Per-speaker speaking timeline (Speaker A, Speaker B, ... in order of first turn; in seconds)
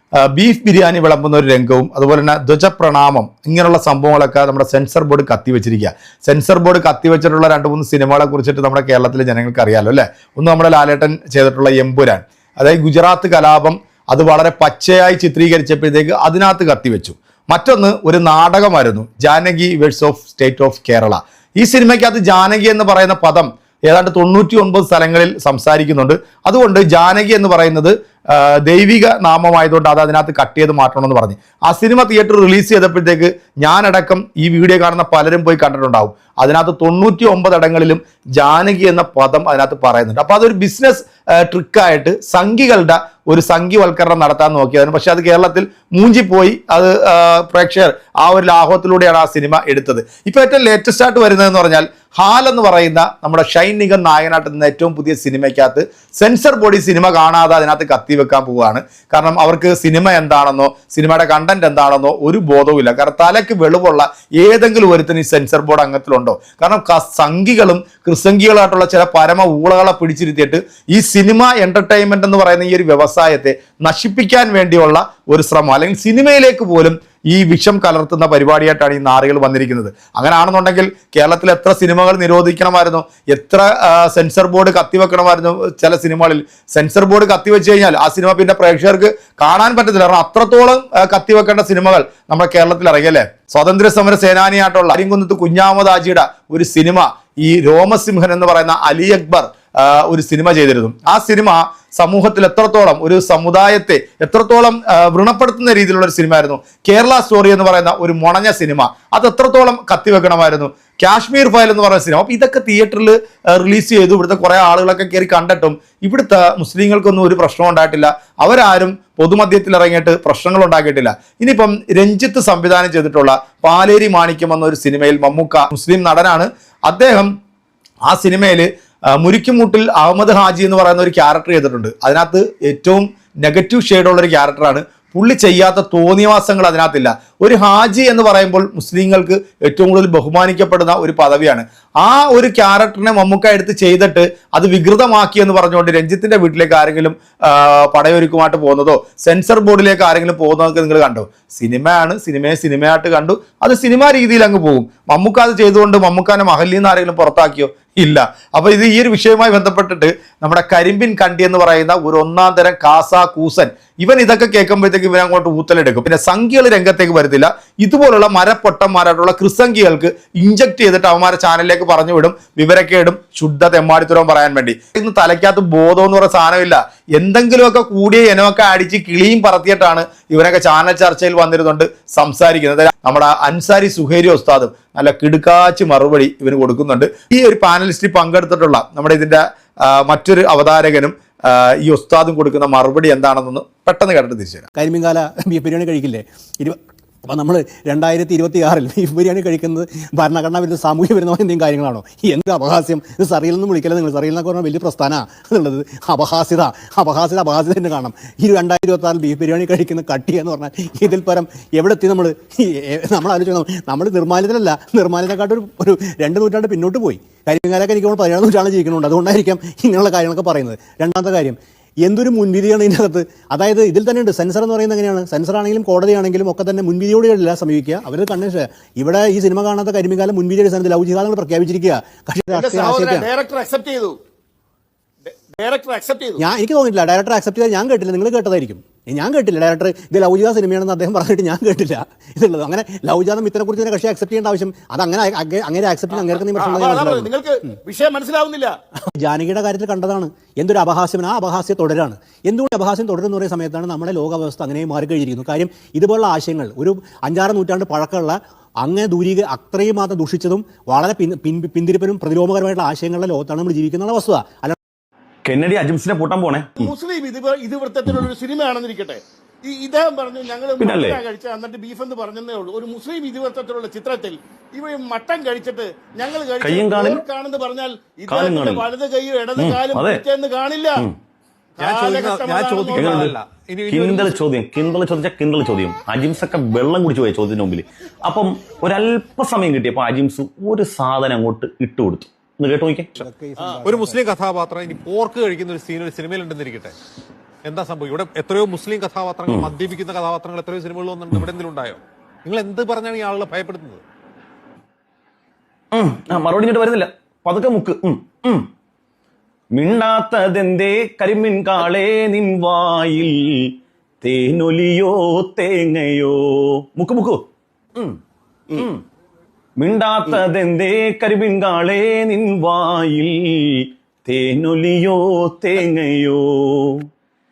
Speaker A: 0.2-127.3, 128.1-194.7
Speaker B: 194.8-233.3, 236.4-247.3, 249.1-264.8, 293.2-294.3
Speaker C: 232.5-234.2, 235.2-236.4, 246.6-248.8, 266.8-281.1, 281.8-283.3
Speaker D: 265.5-266.9, 270.8-271.2, 276.6-277.2, 278.3-278.9, 279.6-280.2, 283.0-293.2, 299.5-299.7, 305.9-308.7, 309.8-317.4, 318.7-319.0, 319.8-327.0
Speaker E: 281.8-284.4, 293.8-296.9, 297.6-304.0